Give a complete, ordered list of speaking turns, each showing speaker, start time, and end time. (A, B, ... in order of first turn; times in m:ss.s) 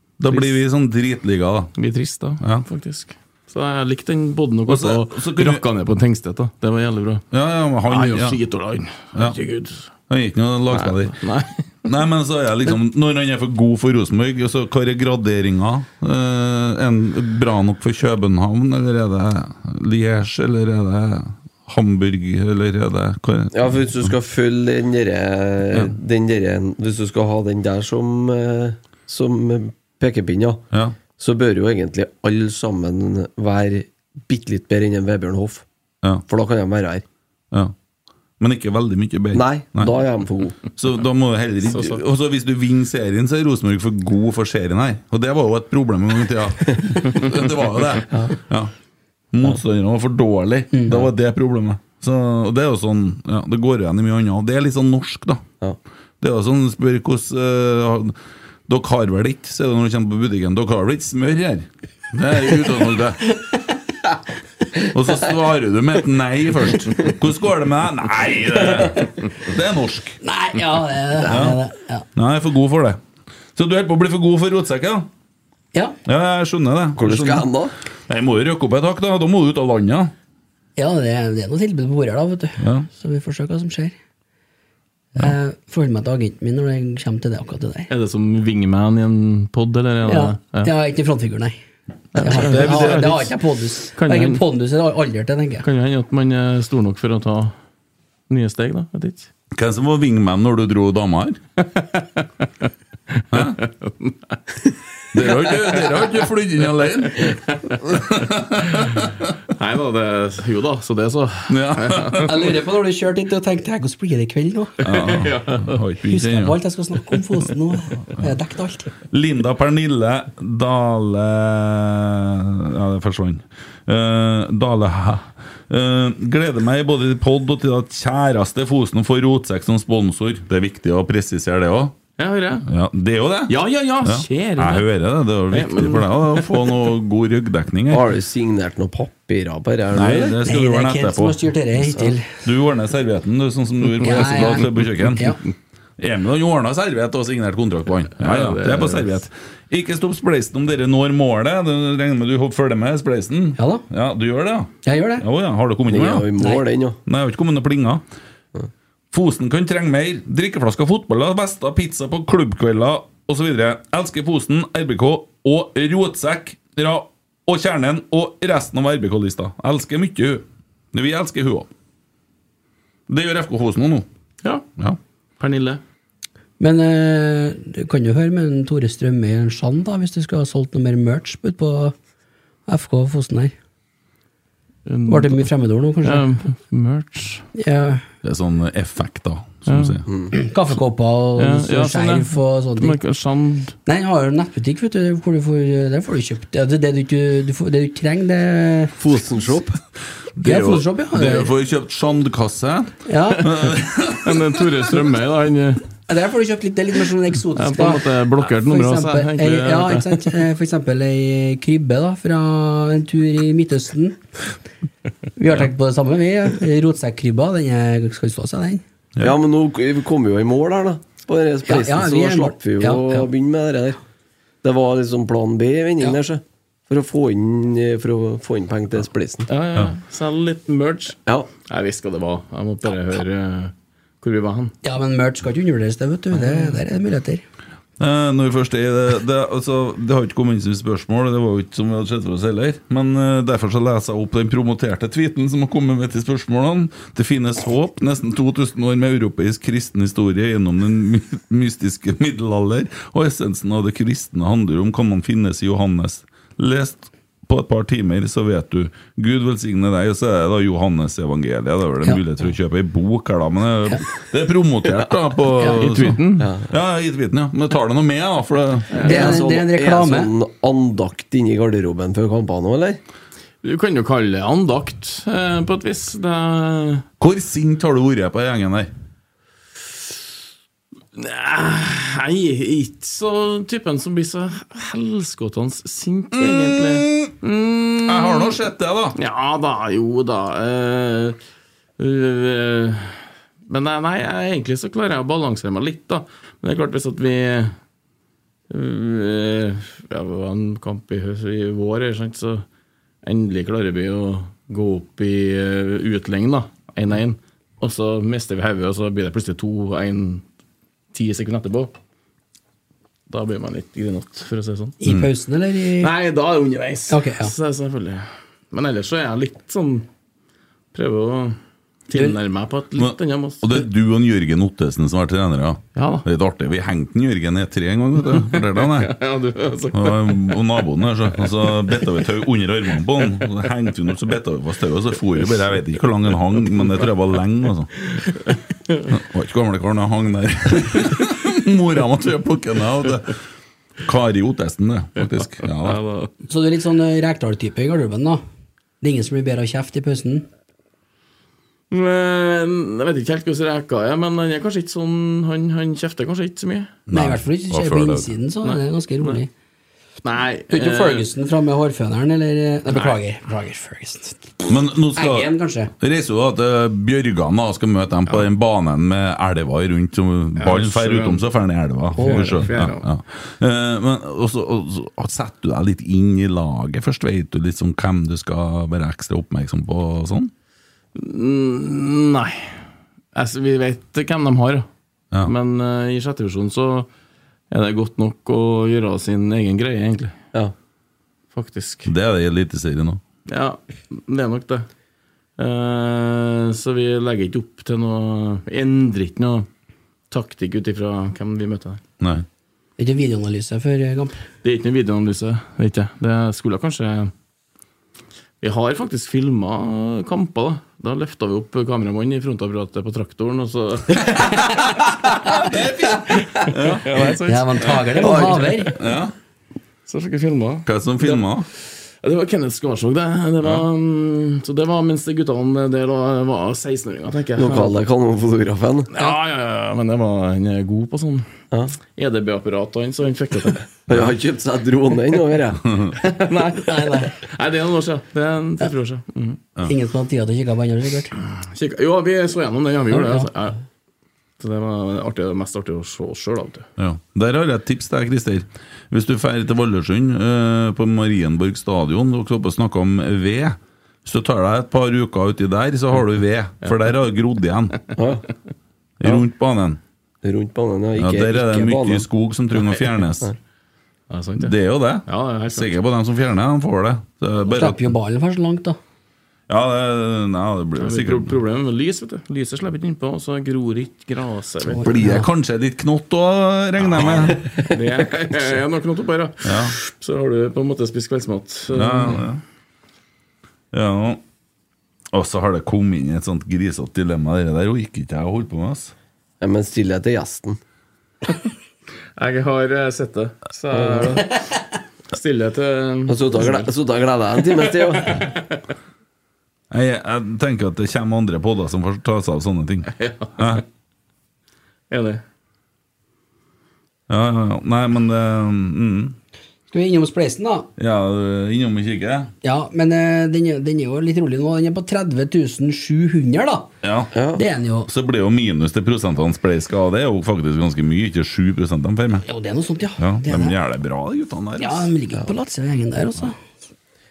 0:00.2-0:01.7 A
0:00.3-0:00.6 B
0:01.8-0:07.2 B
0:02.4-0:02.6 A
0:04.7-0:05.6 A
0:07.3-0:08.4 A
0:07.9-0:09.9 B
0:10.1-0:11.2 A
0:10.7-0:11.6 B
0:11.8-0:24.1 A
0:23.5-0:30.6 C
0:30.7-0:31.0 A
0:31.2-0:35.6 C
0:36.3-0:37.0 C
0:38.4-0:39.9 A
0:39.3-0:40.6 C
0:40.7-0:48.7 A
0:41.7-0:42.0 B
0:48.1-0:48.4 C
0:49.3-0:55.4 A
0:56.2-0:58.2 A
0:58.7-1:03.3 A
1:04.9-1:10.2 A
1:10.2-1:12.0 D
1:11.2-1:11.6 A
1:12.2-1:13.0 A
1:13.6-1:15.1 A
1:16.1-1:17.5 A
1:17.0-1:17.7 C
1:18.1-1:20.1 A
1:20.8-1:23.9 D
1:22.6-1:22.9 A
1:25.2-1:27.9 D
1:27.9-1:30.7 B
1:30.1-1:31.6 D
1:32.2-1:33.4 B
1:32.2-1:35.6 D
1:32.3-1:33.1 A
1:33.9-1:34.4 B
1:35.6-1:37.5 B
1:38.3-1:39.3 B
1:39.5-1:41.4 A
1:41.8-1:42.3 B
1:43.1-1:44.4 B
1:43.3-1:43.6 A
1:45.1-1:49.4 A
1:45.2-1:46.3 B
1:47.2-1:47.8 B
1:48.7-1:52.3 B
1:51.5-1:52.5 A
1:52.2-1:54.7 D
1:54.8-1:55.8 B
1:54.8-1:56.6 A
1:56.1-1:58.9 D
1:59.1-2:12.0 A
2:12.2-2:12.7 B
2:12.7-2:18.1 A
2:13.5-2:14.9 B
2:15.5-2:16.6 B
2:17.9-2:20.4 C
2:19.9-2:21.4 A
2:20.4-2:22.3 D
2:22.4-2:25.4 A
2:24.0-2:25.4 D
2:26.0-2:36.3 A
2:28.2-2:29.2 B
2:33.6-2:33.8 D
2:34.8-2:35.2 D
2:35.9-2:37.0 C
2:37.1-2:38.0 A
2:39.1-2:51.7 A
2:53.1-2:54.1 A
2:55.4-2:55.8 B
2:56.6-3:02.0 D
3:02.7-3:03.5 D
3:04.9-3:05.5 B
3:05.1-3:06.3 D
3:06.0-3:07.5 B
3:07.6-3:08.0 D
3:08.2-3:10.1 A
3:09.7-3:10.0 B
3:10.3-3:13.0 D
3:11.4-3:13.8 B
3:13.9-3:18.9 D
3:19.0-3:19.8 C
3:20.4-3:24.8 A
3:20.4-3:21.5 D
3:23.1-3:23.5 D
3:24.2-3:25.8 B
3:26.1-3:34.2 D
3:27.6-3:30.4 B
3:35.4-3:38.8 D
3:39.2-3:44.0 C
3:41.7-3:43.3 D
3:44.6-3:49.5 C
3:49.5-3:54.8 B
3:54.8-3:57.4 D
3:56.5-3:56.7 B
3:58.0-4:29.0 A
4:25.8-4:26.5 B
4:26.4-4:26.7 C
4:29.0-4:33.0 C
4:29.0-4:29.3 B
4:29.0-4:30.3 D
4:33.6-4:37.0 B
4:37.2-4:38.9 A
4:41.2-4:48.6 B
4:46.3-4:47.3 A
4:48.1-4:49.2 A
4:49.2-4:51.4 B
4:52.0-4:57.8 B
4:58.7-5:02.6 B
5:03.2-5:10.4 B
5:11.1-5:11.9 B
5:13.3-5:15.0 B
5:15.0-5:16.1 D
5:16.0-5:20.1 B
5:17.1-5:17.5 D
5:20.9-5:21.6 B
5:22.1-5:23.8 B
5:23.0-5:29.2 A
5:26.0-5:26.3 B
5:28.3-5:30.7 B
5:29.9-5:37.9 A
5:31.4-5:32.1 B
5:38.1-5:39.1 B
5:39.1-5:43.4 A
5:44.0-5:46.0 A
5:45.2-5:46.3 B
5:46.5-5:48.4 D
5:49.0-5:50.5 D
5:51.9-5:57.0 B
5:57.1-5:58.3 A
5:57.1-5:59.5 D
5:58.6-5:59.4 B
6:00.2-6:01.3 B
6:00.7-6:04.5 D
6:02.9-6:03.2 B
6:04.7-6:20.5 A
6:05.2-6:05.9 D
6:10.6-6:11.4 B
6:12.2-6:13.1 B
6:12.2-6:12.6 D
6:21.2-6:22.8 B
6:23.4-6:24.9 B
6:25.4-6:27.1 B
6:27.7-6:30.4 B
6:31.6-6:32.1 B
6:32.1-6:33.2 A
6:33.5-6:34.9 B
6:35.6-6:39.7 B
6:40.3-6:42.0 B
6:42.2-6:42.4 A
6:43.0-6:44.4 D
6:44.6-6:47.3 B
6:48.6-6:54.9 B
6:55.5-6:57.3 A
6:56.6-6:58.7 B
6:57.5-6:59.0 D
6:58.2-6:58.6 C
6:58.9-6:59.3 A
7:00.1-7:08.0 B
7:00.9-7:01.7 A
7:07.6-7:09.1 C
7:09.1-7:11.5 B
7:12.1-7:13.8 B
7:14.1-7:15.9 C
7:16.2-7:19.6 B
7:16.8-7:17.3 D
7:19.9-7:21.3 D
7:21.5-7:23.8 B
7:23.1-7:23.5 D
7:24.6-7:26.9 B
7:27.0-7:38.1 A
7:38.2-7:38.5 C
7:39.2-7:40.0 A
7:40.4-7:42.2 C
7:41.2-7:43.5 A
7:44.3-7:44.7 B
7:44.6-7:48.1 A
7:45.3-7:45.9 B
7:47.7-7:49.0 D
7:49.7-7:51.5 A
7:51.0-7:55.1 B
7:54.9-7:55.5 D
7:55.0-7:57.6 A
7:57.5-8:02.5 B
7:59.6-8:00.0 A
8:01.9-8:02.6 A
8:03.9-8:04.4 A
8:05.3-8:09.1 A
8:09.6-8:10.8 C
8:12.4-8:16.9 B
8:13.9-8:14.4 C
8:16.3-8:18.5 C
8:17.8-8:18.8 B
8:19.9-8:23.8 A
8:23.2-8:23.8 B
8:25.1-8:25.4 B
8:27.3-8:29.4 A
8:29.9-8:30.9 D
8:31.0-8:32.5 A
8:32.6-8:36.9 D
8:37.0-8:37.3 A
8:37.3-8:37.6 C
8:37.5-8:38.1 D
8:38.1-8:42.4 A
8:42.4-8:43.8 D
8:43.2-8:45.1 A
8:44.8-8:46.6 D